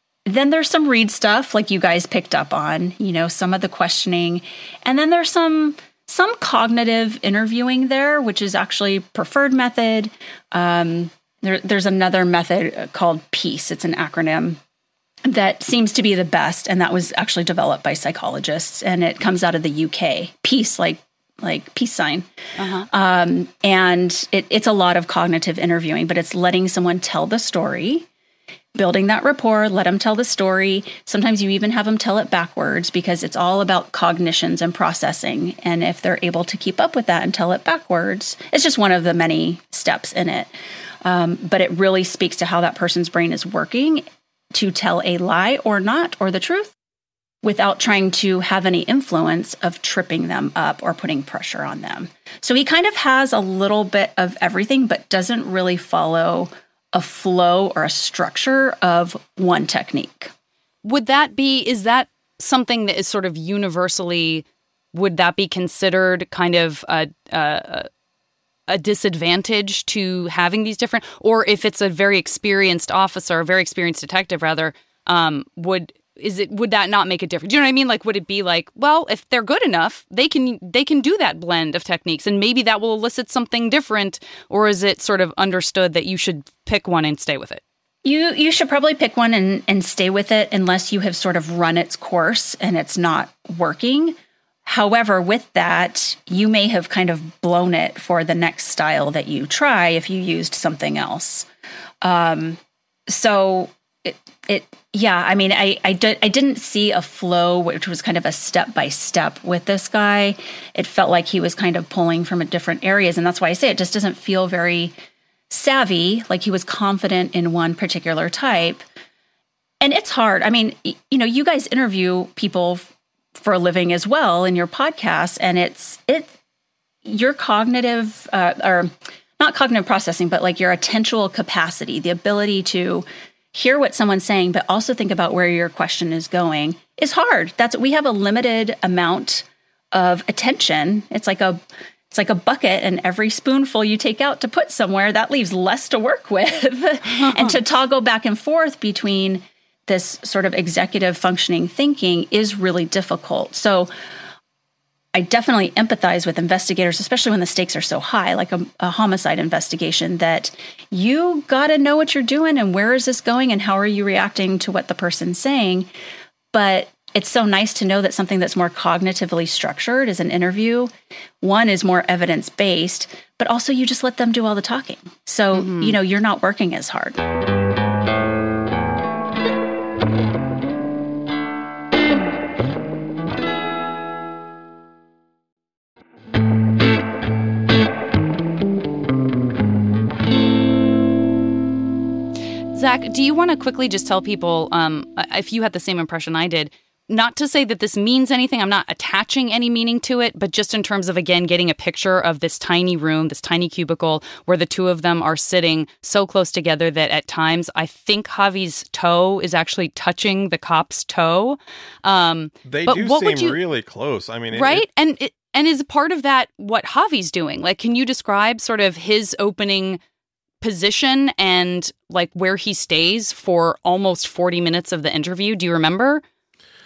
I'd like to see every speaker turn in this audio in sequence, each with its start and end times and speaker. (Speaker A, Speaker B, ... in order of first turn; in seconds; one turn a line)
Speaker A: 0.3-14.6
Speaker A: 15.3-22.3
Speaker B: 22.6-22.9
Speaker A: 22.9-28.1
Speaker A: 28.8-40.5
Speaker A: 41.0-46.7
Speaker A: 47.4-60.3
Speaker B: 60.8-67.9
Speaker B: 68.7-87.6
Speaker A: 88.0-101.5
Speaker A: 102.0-114.9
Speaker A: 115.5-118.8
Speaker A: 119.8-126.3
Speaker A: 127.0-153.9
Speaker B: 147.1-147.6
Speaker A: 155.1-165.9
Speaker A: 166.5-177.2
Speaker B: 175.5-176.0
Speaker B: 192.7-213.6
Speaker C: 212.7-214.8
Speaker B: 214.5-220.0
Speaker B: 220.6-226.2